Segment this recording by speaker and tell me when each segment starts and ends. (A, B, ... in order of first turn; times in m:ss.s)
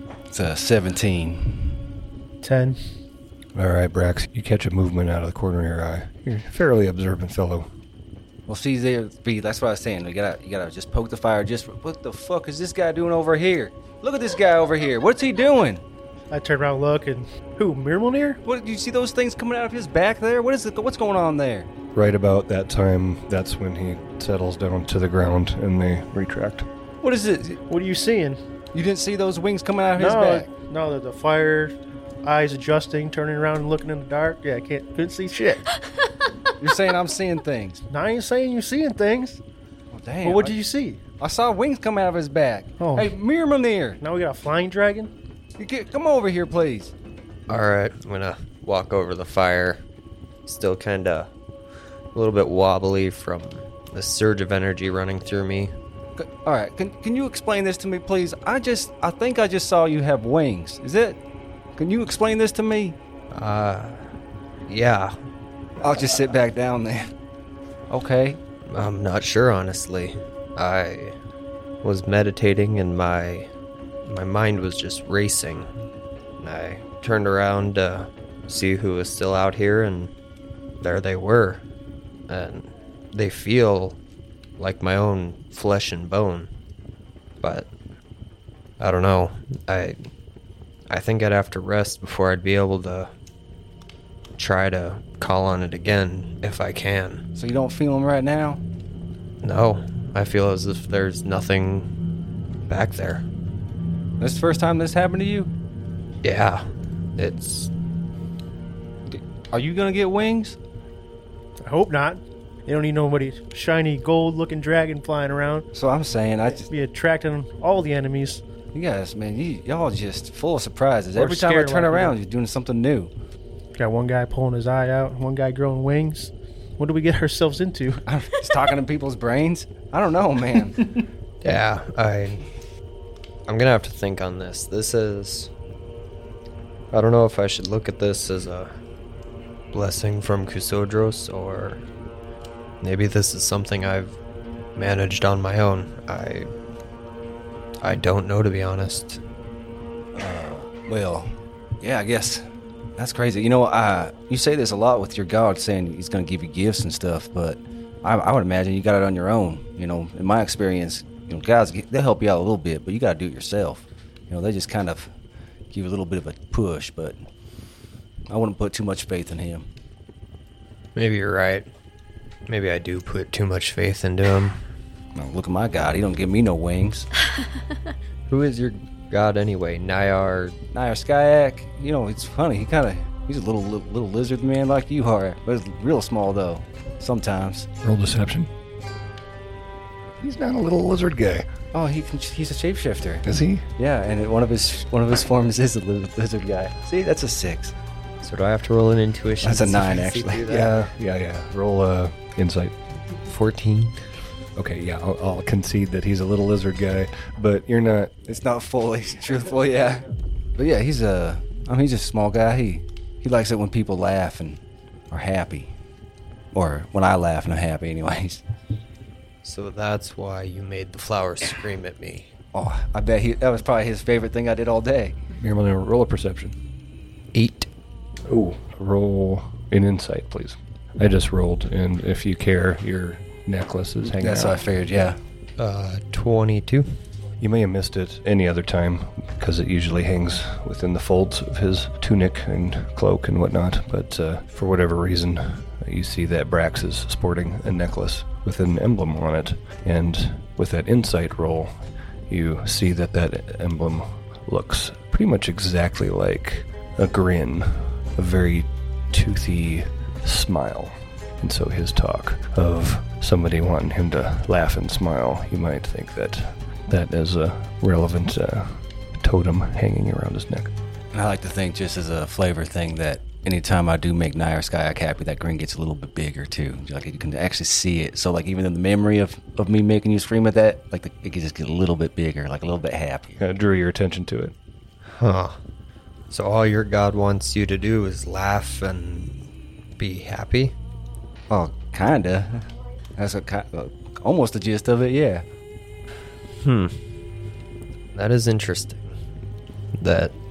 0:00.3-0:01.8 A
0:02.4-0:02.8 B
0:03.6-0:07.7 C
0:08.5-0:15.8 A
0:16.3-0:18.4 B
0:18.4-0:21.7 A
0:22.0-0:26.7 C
0:27.0-0:27.6 A
0:27.7-0:28.4 B
0:28.7-0:30.5 A
0:30.0-0:35.7 B
0:36.6-0:37.8 A
0:37.9-0:39.4 B
0:39.9-0:40.6 A
0:40.2-0:41.0 B
0:41.2-0:44.0 A
0:42.8-0:43.2 B
0:44.0-0:45.1 B
0:45.6-0:46.9 A
0:47.5-0:49.8 D
0:50.5-0:51.3 D
0:52.1-0:55.7 D
0:56.2-1:01.2 A
1:01.8-1:03.0 A
1:03.3-1:04.1 D
1:04.6-1:05.2 D
1:05.8-1:07.1 A
1:07.9-1:08.4 A
1:08.7-1:11.2 D
1:11.8-1:13.5 D
1:14.1-1:15.7 D
1:16.4-1:20.1 D
1:20.8-1:21.6 D
1:22.3-1:24.0 D
1:24.6-1:26.5 D
1:27.4-1:27.7 D
1:28.8-1:30.0 D
1:30.9-1:33.1 D
1:34.4-1:37.2 D
1:37.4-1:38.6 A
1:39.4-1:41.9 D
1:42.7-1:43.3 D
1:44.2-1:45.5 A
1:46.2-1:47.7 D
1:49.1-1:50.6 A
1:51.6-1:55.7 B
1:55.7-1:56.7 A
1:56.7-1:58.4 B
1:58.7-2:03.1 A
2:01.2-2:02.2 B
2:03.8-2:08.0 B
2:08.1-2:10.9 A
2:11.4-2:12.4 D
2:13.5-2:15.5 D
2:16.9-2:18.7 D
2:19.7-2:21.8 D
2:22.8-2:24.2 D
2:24.8-2:26.5 D
2:27.8-2:29.2 D
2:30.2-2:32.4 A
2:33.0-2:45.1 A
2:45.7-2:47.2 A
2:48.3-2:49.7 A
2:51.0-2:51.7 D
2:52.5-2:54.6 D
2:55.2-2:57.1 A
2:58.3-3:00.6 D
3:00.7-3:07.7 A
3:07.8-3:08.5 C
3:10.2-3:11.5 C
3:11.7-3:17.8 A
3:13.2-3:13.7 C
3:18.2-3:20.7 D
3:19.4-3:20.5 A
3:20.5-3:22.7 C
3:23.3-3:24.0 D
3:24.6-3:28.1 C
3:28.3-3:30.0 A
3:30.6-3:34.6 A
3:35.1-3:35.7 A
3:36.5-3:38.4 A
3:39.4-3:42.3 D
3:42.5-3:45.2 A
3:45.4-3:46.6 C
3:47.3-3:47.7 D
3:48.3-3:54.6 C
3:54.0-3:55.2 A
3:55.6-3:56.9 D
3:57.4-4:11.7 C
4:12.3-4:30.7 C
4:31.1-4:43.4 A
4:43.4-4:44.5 C
4:45.1-4:45.6 D
4:46.3-4:49.4 D
4:50.0-4:50.8 D
4:51.5-4:55.4 A
4:56.6-4:57.0 D
4:58.1-4:59.1 D
5:00.0-5:00.3 D